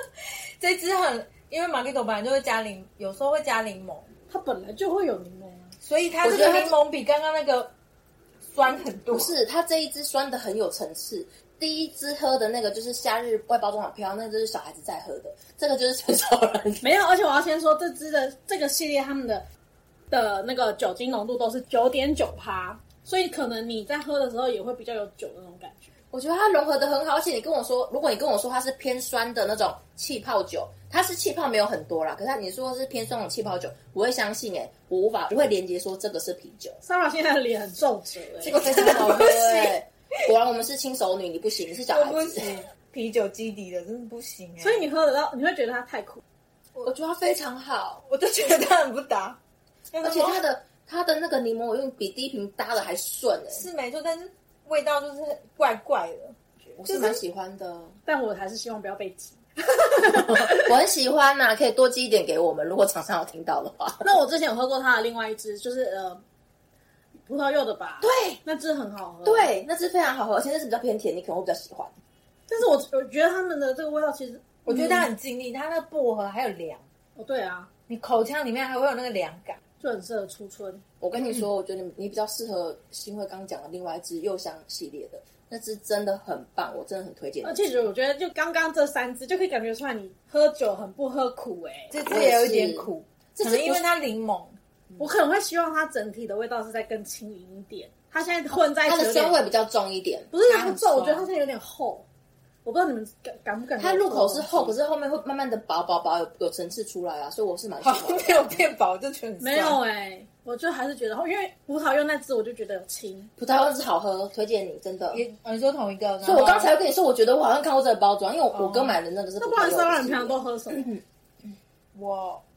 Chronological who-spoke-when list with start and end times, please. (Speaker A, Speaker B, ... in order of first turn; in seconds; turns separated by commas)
Speaker A: 0.6-4.1, Speaker B: 4.3-5.8, Speaker A: 5.8-7.7, Speaker C: 6.2-6.8, Speaker A: 8.5-9.4, Speaker C: 9.1-16.9, Speaker B: 16.8-19.4, Speaker B: 20.1-25.9, Speaker C: 26.1-36.8, Speaker B: 36.8-39.0, Speaker C: 38.4-42.6, Speaker A: 38.4-39.8, Speaker A: 41.9-44.9, Speaker B: 44.6-46.2, Speaker C: 46.8-48.0, Speaker A: 48.0-49.4, Speaker A: 49.9-50.4, Speaker C: 50.0-53.7, Speaker A: 53.5-57.2, Speaker C: 56.8-58.0, Speaker B: 58.0-60.6, Speaker C: 60.1-64.1, Speaker B: 64.0-66.2, Speaker B: 67.2-69.5, Speaker C: 68.0-68.4, Speaker C: 69.2-71.9, Speaker B: 72.5-75.1, Speaker A: 74.7-76.8, Speaker B: 77.2-77.7, Speaker A: 77.9-79.6, Speaker B: 79.8-80.8, Speaker C: 81.0-87.8, Speaker B: 87.4-92.0, Speaker A: 91.9-94.6, Speaker C: 92.0-93.8, Speaker B: 95.0-99.4, Speaker C: 98.8-100.3, Speaker B: 100.3-102.1, Speaker A: 100.4-101.3, Speaker B: 102.6-104.8, Speaker C: 103.8-108.6, Speaker A: 107.8-109.8, Speaker B: 109.4-113.3, Speaker C: 113.4-115.2, Speaker A: 115.1-116.7, Speaker C: 116.2-121.0, Speaker A: 118.5-119.0, Speaker B: 119.4-120.9, Speaker A: 121.9-122.4